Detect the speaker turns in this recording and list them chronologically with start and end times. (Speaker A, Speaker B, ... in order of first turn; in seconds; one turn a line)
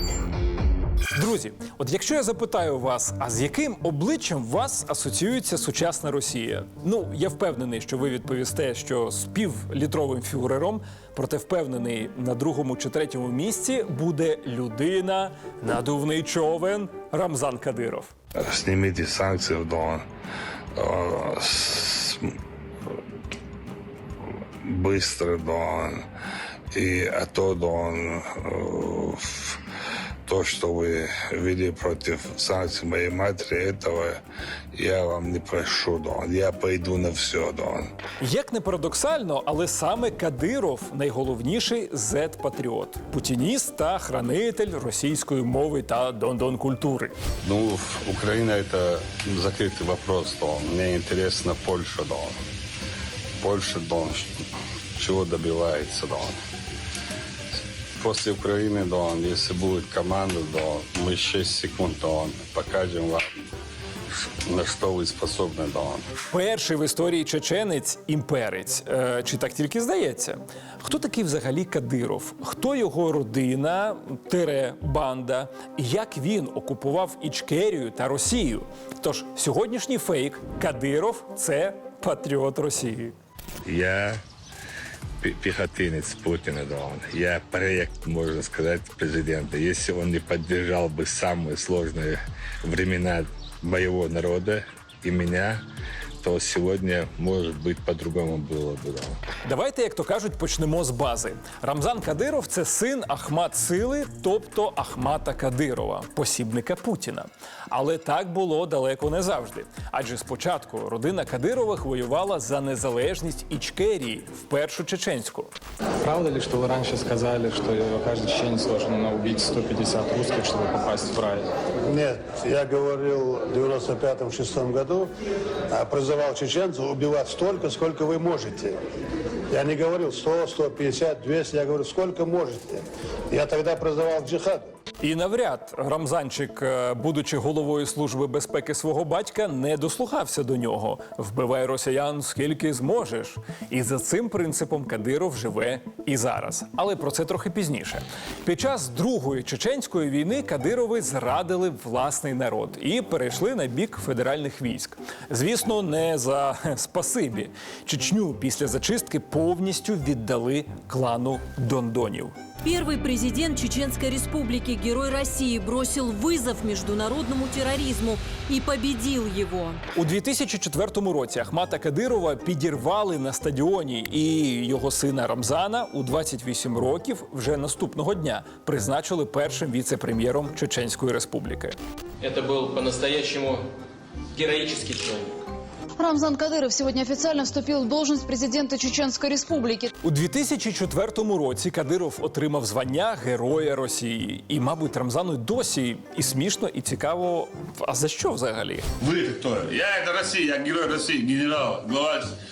Speaker A: 1.1-18.1
Speaker B: 18.4-20.0
Speaker B: 20.8-22.2
Speaker B: 24.6-25.9
Speaker B: 26.7-29.6
Speaker B: 30.2-34.2
Speaker B: 34.7-37.9
Speaker A: 38.2-47.1
Speaker C: 47.4-52.4
Speaker C: 53.4-54.3
Speaker C: 55.0-56.3
Speaker C: 58.0-63.3
Speaker C: 64.5-66.0
Speaker A: 66.3-83.1
Speaker B: 83.6-84.2
Speaker B: 85.2-95.6
Speaker B: 96.2-99.2
Speaker A: 99.4-115.5
Speaker D: 116.0-121.3
Speaker E: 121.9-125.1
Speaker E: 125.7-128.7
Speaker E: 129.5-134.7
Speaker A: 135.0-162.3
Speaker F: 162.6-169.8
Speaker A: 169.9-181.8
Speaker G: 182.2-183.6
Speaker G: 184.3-185.3
Speaker H: 186.0-189.9
Speaker A: 190.0-198.8
Speaker I: 199.0-202.2